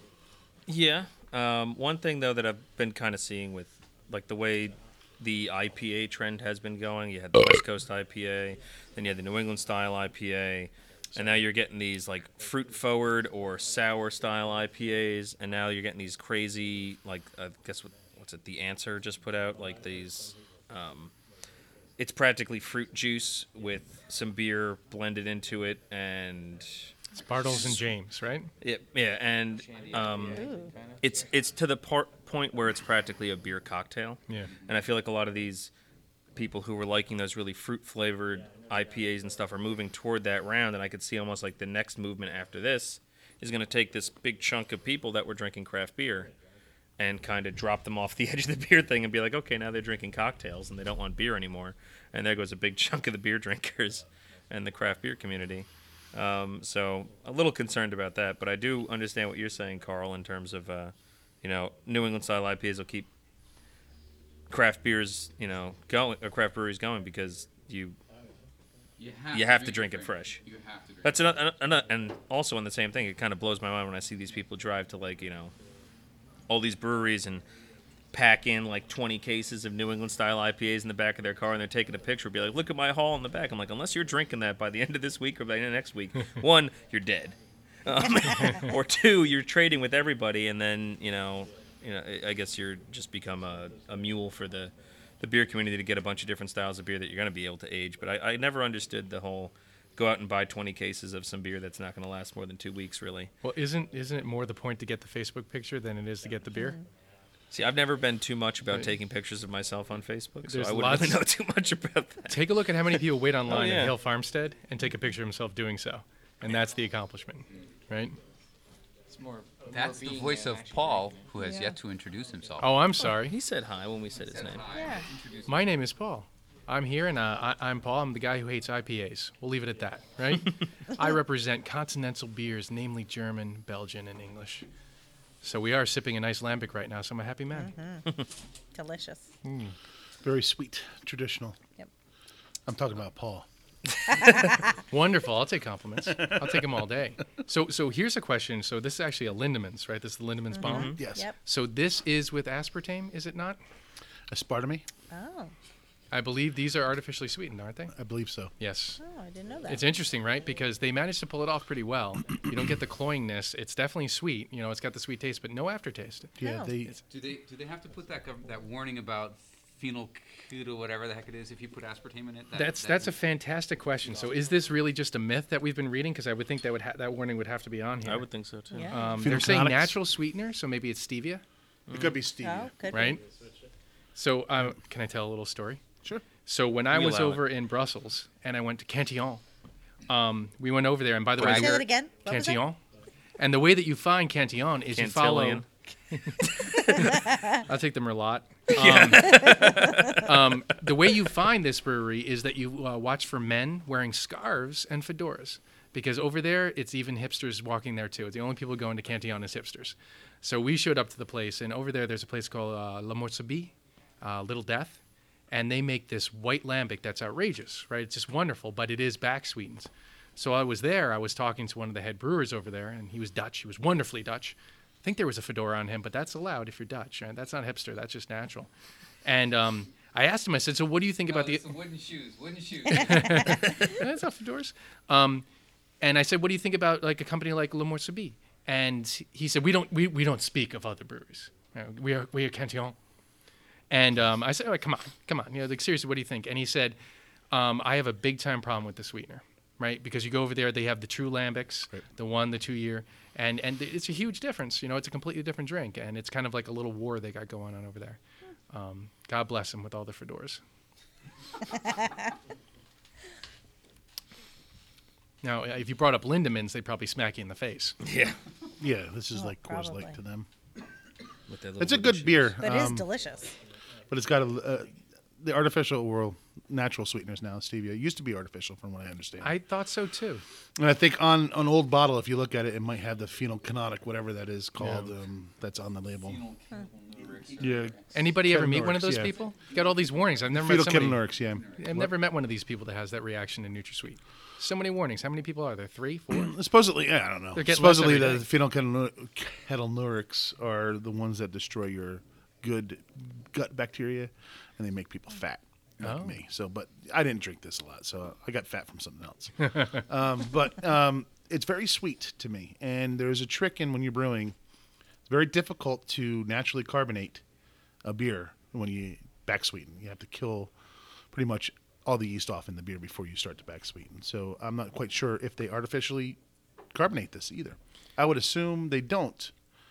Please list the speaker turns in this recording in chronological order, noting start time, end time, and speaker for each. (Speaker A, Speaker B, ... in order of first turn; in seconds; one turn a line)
Speaker A: 0.7-21.1
Speaker B: 11.1-11.4
Speaker A: 22.0-26.9
Speaker C: 27.1-28.5
Speaker A: 27.4-27.8
Speaker A: 28.6-30.5
Speaker D: 29.5-31.3
Speaker E: 30.3-30.7
Speaker A: 31.0-35.7
Speaker C: 34.3-34.5
Speaker A: 36.4-46.3
Speaker A: 47.0-63.1
Speaker A: 64.5-68.0
Speaker F: 69.0-71.4
Speaker A: 69.3-70.4
Speaker A: 71.0-75.5
Speaker A: 76.5-77.4
Speaker A: 78.1-103.3
Speaker C: 103.4-106.8
Speaker E: 106.5-106.8
Speaker A: 107.5-113.0
Speaker C: 110.5-111.2
Speaker C: 112.3-118.2
Speaker A: 113.5-114.0
Speaker D: 119.1-121.3
Speaker F: 119.7-122.8
Speaker E: 121.4-121.8
Speaker C: 122.6-123.4
Speaker A: 123.0-124.7
Speaker F: 124.2-125.7
Speaker E: 124.7-125.1
Speaker C: 125.5-134.7
Speaker C: 135.4-137.7
Speaker E: 137.5-139.2
Speaker C: 139.4-139.7
Speaker B: 140.2-141.6
Speaker B: 142.7-143.5
Speaker C: 144.9-153.6
Speaker E: 150.5-151.4
Speaker A: 150.6-151.0
Speaker B: 151.0-151.3
Speaker B: 154.3-154.9
Speaker E: 155.1-155.5
Speaker C: 156.1-157.9
Speaker B: 157.9-158.5
Speaker C: 158.6-159.0
Speaker E: 159.0-159.9
Speaker C: 159.7-166.3
Speaker B: 166.4-167.0
Speaker E: 166.4-166.7
Speaker F: 167.1-173.2
Speaker C: 172.5-178.2
Speaker A: 178.0-178.9
Speaker E: 178.7-179.2
Speaker C: 178.9-181.4
Speaker B: 179.2-180.0
Speaker A: 181.9-182.2
Speaker B: 181.9-182.7
Speaker E: 182.4-183.2
Speaker C: 182.9-183.2
Speaker C: 184.2-185.8
Speaker C: 186.4-189.4
Speaker A: 186.9-187.4
Speaker C: 190.1-192.8
Speaker F: 191.4-191.8
Speaker E: 191.4-192.6
Speaker C: 193.4-196.4
Speaker A: 194.9-195.7
Speaker A: 196.4-197.1
Speaker C: 196.9-215.0
Speaker A: 198.7-200.2
Speaker E: 199.3-200.2
Speaker C: 215.5-228.7
Speaker C: 229.2-231.8
Speaker F: 231.2-233.5
Speaker C: 232.9-235.4
Speaker C: 236.0-243.0
Speaker C: 243.9-247.0
Speaker C: 247.5-258.2
Speaker C: 258.7-260.6
Speaker C: 265.4-268.0
Speaker A: 268.0-268.4
Speaker B: 268.8-270.5
Speaker E: 269.4-270.1
Speaker A: 271.5-272.5
Speaker B: 271.8-273.1
Speaker E: 272.6-273.5
Speaker B: 274.1-274.9
Speaker B: 275.4-279.6
Speaker C: 279.4-280.4
Speaker B: 280.8-286.4
Speaker C: 284.8-285.1
Speaker F: 286.2-288.2
Speaker B: 287.6-289.4
Speaker C: 288.1-296.5
Speaker F: 289.6-290.0
Speaker B: 290.5-292.1
Speaker F: 291.5-291.9
Speaker B: 296.3-314.6
Speaker C: 297.5-298.5
Speaker C: 306.0-306.4
Speaker B: 315.3-317.4
Speaker B: 318.0-320.7
Speaker B: 321.3-326.4
Speaker B: 326.9-329.5